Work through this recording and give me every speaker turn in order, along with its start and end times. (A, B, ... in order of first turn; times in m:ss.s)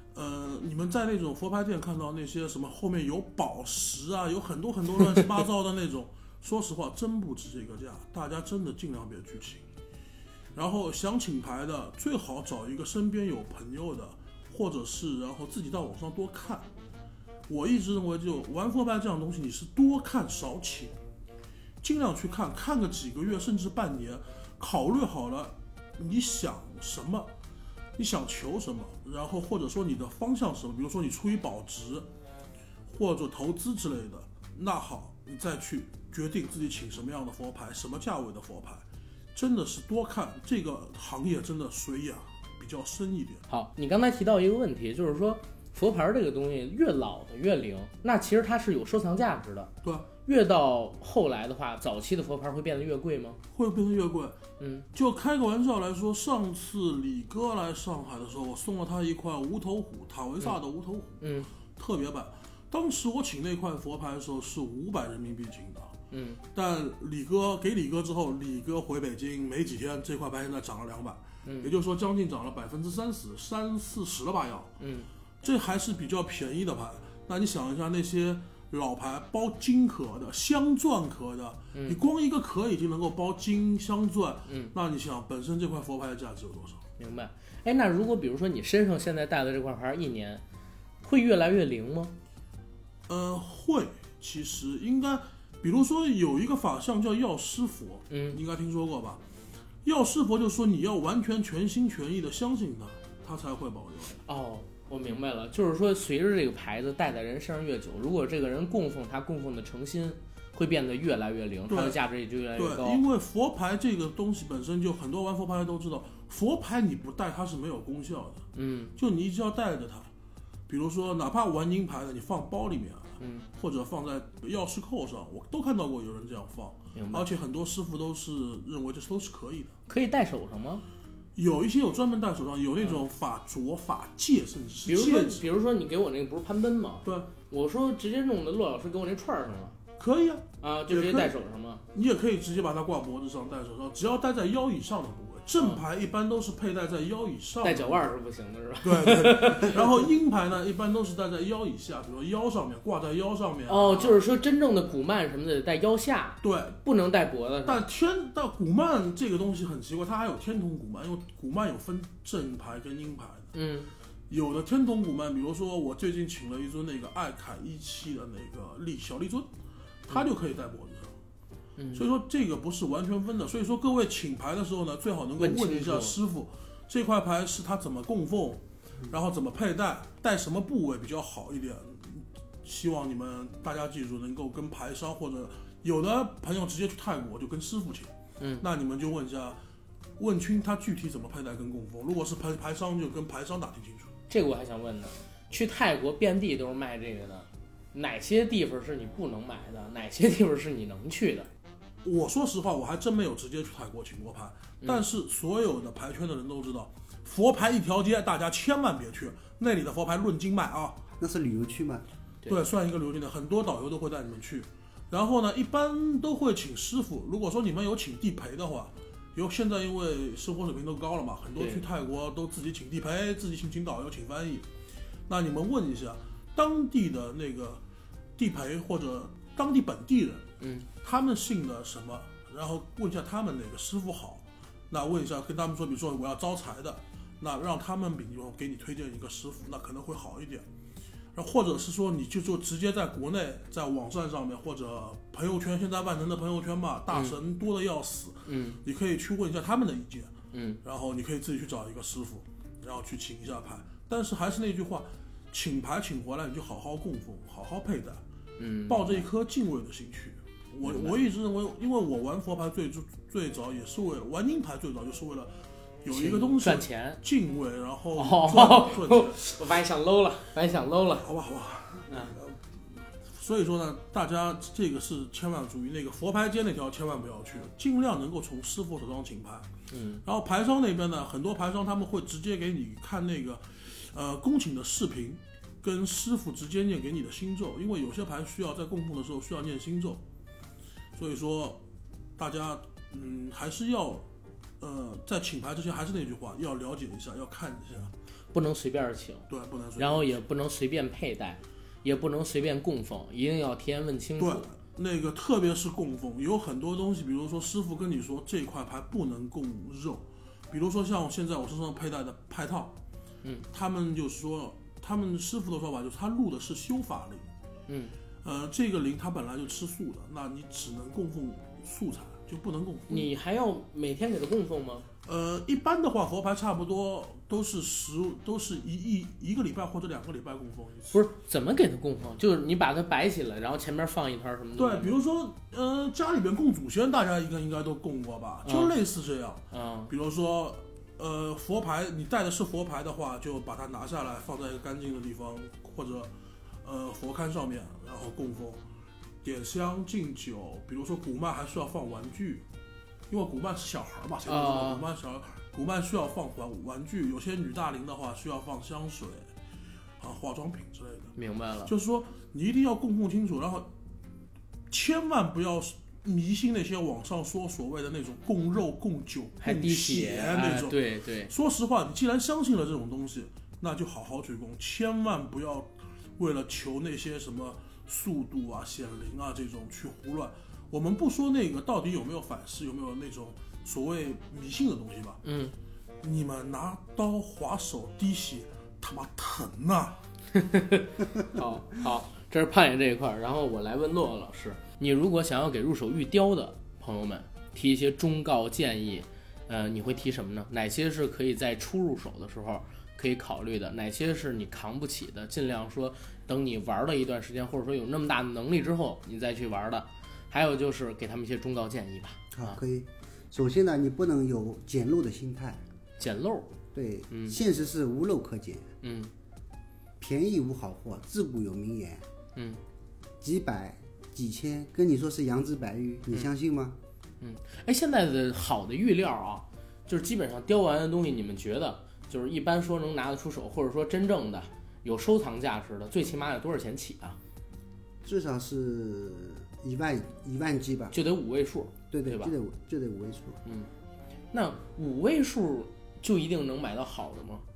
0:00.1-0:09.6 A
0:10.6-0:16.7 A
0:17.5-0:21.0 A
0:21.8-0:27.3 A
0:28.0-0:32.1 A
0:32.9-0:38.8 A
0:39.4-0:43.4 A
0:43.5-0:49.7 B
0:50.2-0:53.4 B
0:53.5-0:54.4 A
0:54.6-0:54.9 B
0:54.9-1:05.9 A
1:01.2-1:01.5 B
1:06.1-1:06.4 B
1:06.5-1:14.7 A
1:11.4-1:11.7 B
1:14.8-1:15.1 B
1:15.4-1:26.8 A
1:24.5-1:24.7 B
1:27.0-1:30.4 B
1:31.0-1:32.1 B
1:33.1-1:39.2 A
1:38.1-1:38.4 B
1:39.8-1:44.2 A
1:44.3-1:53.0 B
1:51.7-1:52.0 A
1:52.6-2:00.1 A
1:58.6-1:58.9 B
2:00.7-2:09.8 A
2:03.2-2:03.5 B
2:07.0-2:07.3 B
2:09.9-2:10.8 B
2:11.4-2:15.5 A
2:14.9-2:19.8 B
2:17.0-2:17.3 A
2:20.0-2:21.3 A
2:20.6-2:21.8 B
2:21.9-2:28.1 A
2:27.6-2:30.0 B
2:28.8-2:34.2 A
2:33.7-2:37.8 B
2:36.4-2:36.8 A
2:37.6-2:43.5 A
2:43.5-2:43.9 B
2:44.3-2:49.5 A
2:50.1-2:51.1 A
2:51.8-2:52.0 B
2:51.9-3:09.6 A
2:55.4-2:56.2 B
3:08.4-3:08.6 B
3:10.2-3:14.1 A
3:14.3-3:21.5 B
3:22.0-3:31.0 A
3:31.2-3:32.0 C
3:32.5-3:44.7 A
3:41.6-3:41.8 B
3:45.3-3:47.8 A
3:48.4-3:50.5 A
3:50.6-3:50.9 B
3:51.0-4:00.6 A
4:01.4-4:10.3 A
4:08.5-4:08.8 B
4:10.5-4:10.8 B
4:10.8-4:18.2 A
4:18.6-4:19.3 B
4:18.9-4:29.4 A
4:20.8-4:21.2 B
4:26.1-4:27.2 B
4:28.2-4:31.3 B
4:31.2-4:32.6 A
4:32.1-4:32.4 B
4:33.2-4:39.7 A
4:39.9-4:40.2 B
4:40.2-4:50.2 A
4:51.2-4:51.8 A
4:52.4-4:54.2 A
4:54.8-4:58.1 A
4:58.5-4:59.5 B
4:59.5-5:00.4 A
5:00.0-5:04.7 B
5:04.4-5:13.0 A
5:13.7-5:17.5 A
5:17.9-5:18.2 B
5:18.4-5:23.3 A
5:23.1-5:25.1 B
5:25.2-5:31.2 A
5:31.1-5:35.2 B
5:34.8-5:46.3 A
5:38.6-5:38.9 B
5:39.7-5:40.1 B
5:46.8-5:48.8 A
5:49.4-5:52.6 A
5:53.3-5:59.5 A
5:54.5-5:55.1 B
6:00.2-6:01.3 A
6:01.4-6:01.9 B
6:01.9-6:03.9 A
6:04.9-6:25.4 A
6:09.6-6:11.5 B
6:25.4-6:25.7 B
6:26.2-6:30.2 A
6:30.5-6:52.8 B
6:52.5-6:55.8 C
6:56.2-6:56.7 B
6:56.9-6:58.9 C
6:57.3-6:57.6 B
6:59.0-6:59.3 B
7:00.2-7:02.3 C
7:02.6-7:02.8 B
7:03.4-7:07.0 C
7:07.4-7:17.4 B
7:18.2-7:21.2 C
7:21.1-7:22.5 B
7:22.1-7:23.6 C
7:24.5-7:27.6 B